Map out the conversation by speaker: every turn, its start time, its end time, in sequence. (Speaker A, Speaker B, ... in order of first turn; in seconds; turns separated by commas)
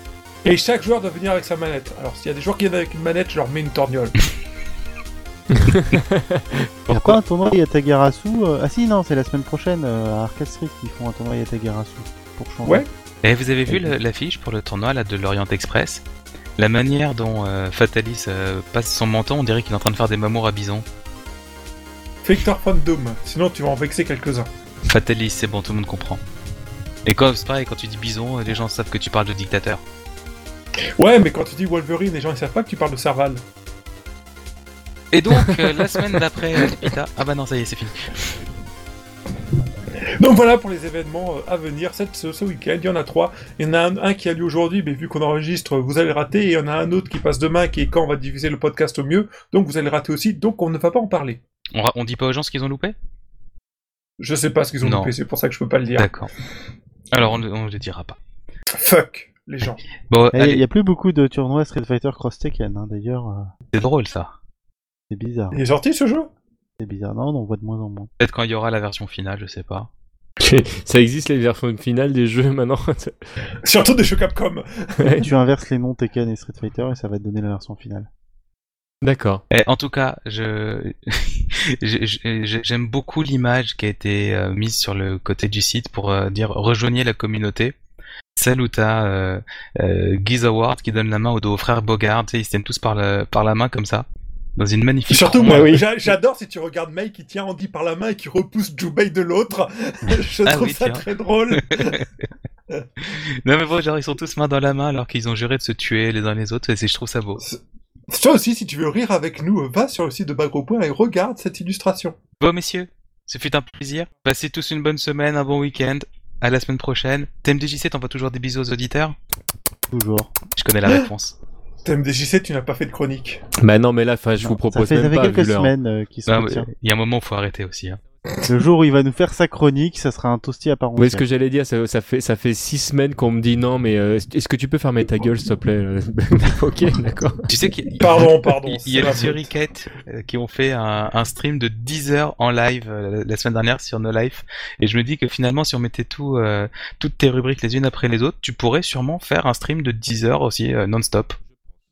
Speaker A: 0.4-4.1, Speaker B: 5.5-7.1, Speaker C: 6.9-12.8, Speaker D: 13.2-16.0, Speaker C: 13.7-13.9, Speaker D: 16.6-20.9, Speaker A: 22.2-24.5, Speaker D: 24.9-26.2, Speaker D: 27.1-29.8, Speaker A: 31.0-33.4, Speaker D: 35.1-38.3, Speaker A: 40.0-51.4, Speaker D: 51.7-52.9, Speaker A: 54.2-56.1, Speaker D: 54.8-55.1, Speaker D: 56.0-56.3, Speaker D: 57.1-58.2, Speaker A: 58.7-59.8, Speaker D: 60.1-60.6, Speaker C: 60.3-63.5, Speaker D: 63.7-64.3, Speaker C: 65.1-65.6, Speaker A: 65.5-66.3, Speaker C: 66.8-68.1, Speaker D: 68.2-69.9, Speaker B: 70.4-73.2, Speaker A: 73.6-74.8, Speaker C: 75.0-78.1, Speaker B: 79.0-79.4, Speaker D: 79.5-87.7, Speaker D: 88.3-94.0, Speaker D: 94.6-96.1, Speaker A: 95.1-102.0, Speaker D: 100.4-102.3, Speaker D: 103.0-107.4, Speaker A: 107.4-112.2, Speaker D: 112.4-119.2, Speaker C: 119.9-120.3, Speaker D: 120.5-121.4, Speaker A: 121.8-123.4, Speaker B: 123.6-125.7, Speaker C: 124.4-126.7, Speaker D: 126.3-128.0, Speaker C: 128.4-131.2, Speaker B: 131.0-137.4, Speaker D: 137.5-151.4, Speaker A: 138.0-139.5